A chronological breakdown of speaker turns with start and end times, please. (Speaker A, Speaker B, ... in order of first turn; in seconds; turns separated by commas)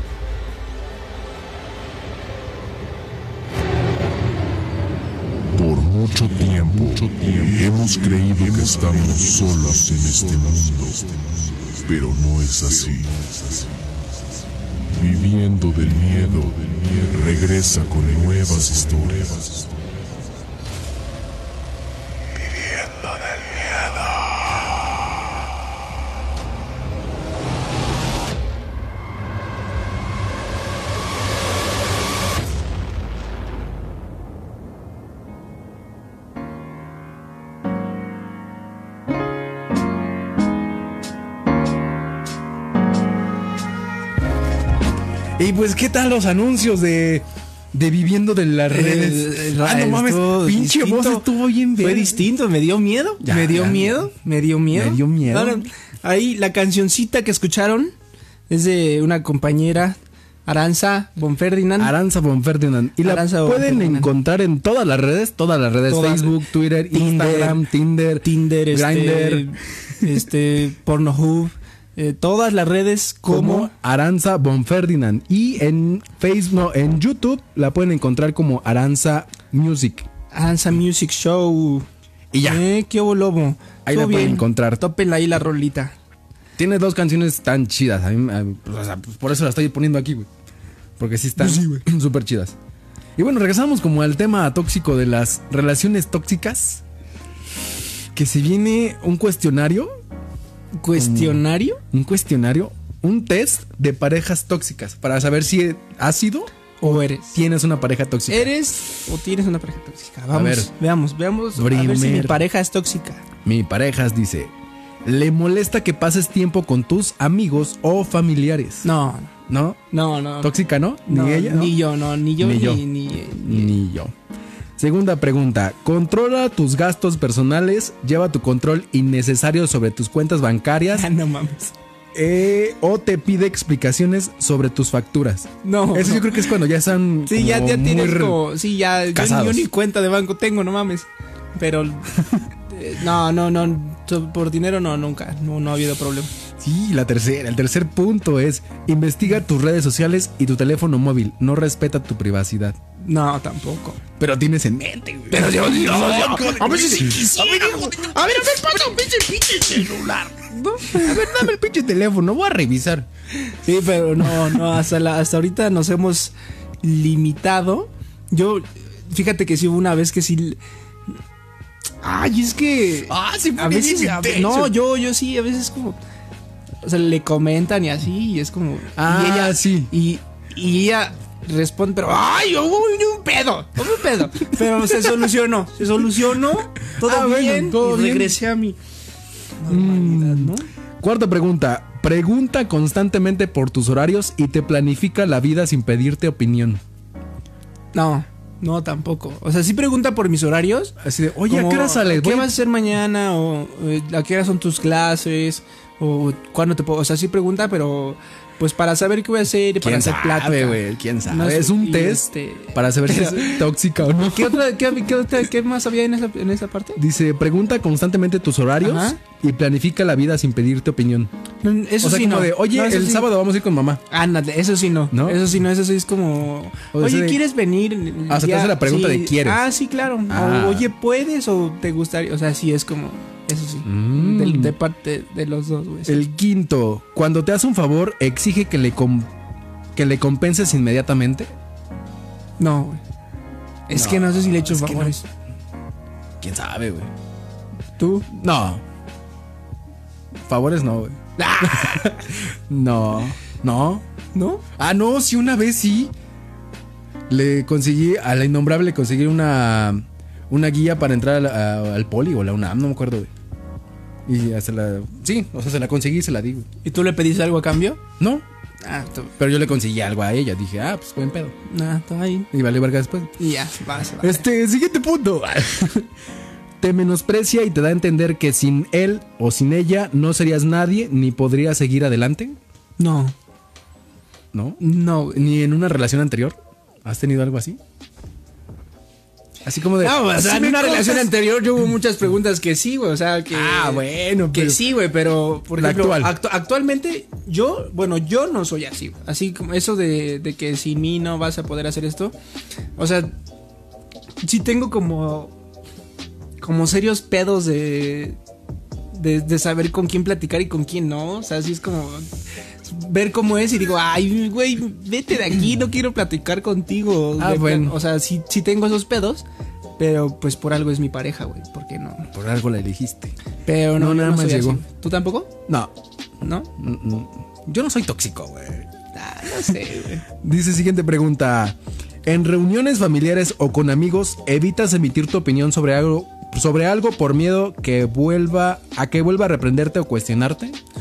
Speaker A: 5.5-13.9, Speaker A: 14.8-19.7, Speaker B: 45.4-52.2, Speaker C: 48.7-57.9, Speaker B: 53.2-54.0, Speaker B: 54.7-55.6, Speaker C: 58.5-61.9, Speaker B: 61.8-69.5, Speaker C: 63.0-64.1, Speaker C: 65.9-67.7, Speaker C: 68.2-73.7, Speaker B: 73.3-80.1, Speaker C: 80.3-81.8, Speaker B: 82.3-82.6, Speaker C: 82.4-85.9, Speaker B: 83.8-84.8, Speaker B: 86.6-90.3, Speaker B: 91.0-92.5, Speaker C: 91.4-91.7, Speaker B: 93.2-96.8, Speaker B: 98.1-99.9, Speaker C: 100.8-101.8, Speaker B: 100.9-106.5, Speaker C: 106.8-107.4, Speaker B: 107.2-108.5, Speaker C: 108.3-113.2, Speaker B: 110.3-110.7, Speaker B: 111.5-112.4, Speaker B: 113.4-114.5, Speaker B: 115.0-118.9, Speaker C: 118.8-119.3, Speaker B: 119.5-119.8, Speaker C: 119.9-123.8, Speaker B: 120.4-121.8, Speaker B: 122.4-124.1, Speaker B: 124.8-131.1, Speaker C: 130.9-131.7, Speaker B: 132.1-138.4, Speaker C: 135.6-136.5, Speaker C: 137.2-142.1, Speaker B: 139.1-139.6, Speaker C: 142.7-146.3, Speaker B: 146.6-152.8, Speaker C: 153.0-154.0, Speaker B: 154.2-158.0, Speaker C: 155.3-161.5, Speaker B: 160.8-163.1, Speaker C: 163.3-170.6, Speaker C: 172.0-176.0, Speaker B: 173.1-174.7, Speaker C: 176.8-188.8, Speaker B: 178.9-179.9, Speaker B: 186.9-188.4, Speaker C: 189.6-190.7, Speaker B: 189.7-196.8, Speaker C: 197.9-200.9, Speaker B: 201.0-202.5, Speaker C: 201.4-213.7, Speaker B: 209.8-214.6, Speaker C: 214.2-217.0, Speaker B: 217.0-221.3, Speaker C: 218.8-219.2, Speaker C: 221.6-223.3, Speaker B: 222.0-224.0, Speaker C: 224.1-236.3, Speaker B: 225.1-225.4, Speaker B: 226.9-227.4, Speaker B: 228.3-229.7, Speaker B: 230.3-230.9, Speaker B: 233.8-234.7, Speaker B: 236.1-239.3, Speaker B: 239.9-241.5, Speaker C: 242.6-243.0, Speaker C: 243.9-245.2, Speaker B: 243.9-245.2, Speaker B: 246.4-247.1, Speaker C: 248.0-248.3, Speaker B: 248.3-248.8, Speaker B: 250.5-254.0, Speaker C: 251.4-252.2, Speaker C: 254.3-254.6, Speaker B: 254.8-256.1, Speaker B: 257.3-263.3, Speaker B: 264.3-266.7, Speaker C: 266.8-268.0, Speaker B: 268.2-268.4, Speaker C: 268.8-269.3, Speaker B: 269.4-271.5, Speaker C: 271.7-272.5, Speaker B: 272.5-273.3, Speaker C: 273.4-274.4, Speaker B: 274.2-276.1, Speaker B: 276.8-282.6, Speaker C: 283.0-283.4, Speaker B: 284.5-284.8, Speaker C: 284.8-285.4, Speaker B: 285.3-287.8, Speaker B: 289.6-291.3, Speaker C: 290.0-302.3, Speaker B: 293.5-294.8, Speaker B: 295.8-296.3, Speaker C: 303.0-303.3, Speaker C: 304.4-305.5, Speaker C: 306.6-308.4, Speaker C: 309.1-312.3, Speaker C: 312.8-319.4, Speaker B: 317.4-318.0, Speaker C: 320.0-322.3, Speaker B: 322.3-323.3, Speaker C: 323.6-325.6, Speaker B: 323.9-324.8, Speaker C: 326.4-326.7, Speaker B: 326.8-328.9, Speaker C: 329.1-330.2, Speaker B: 330.4-340.8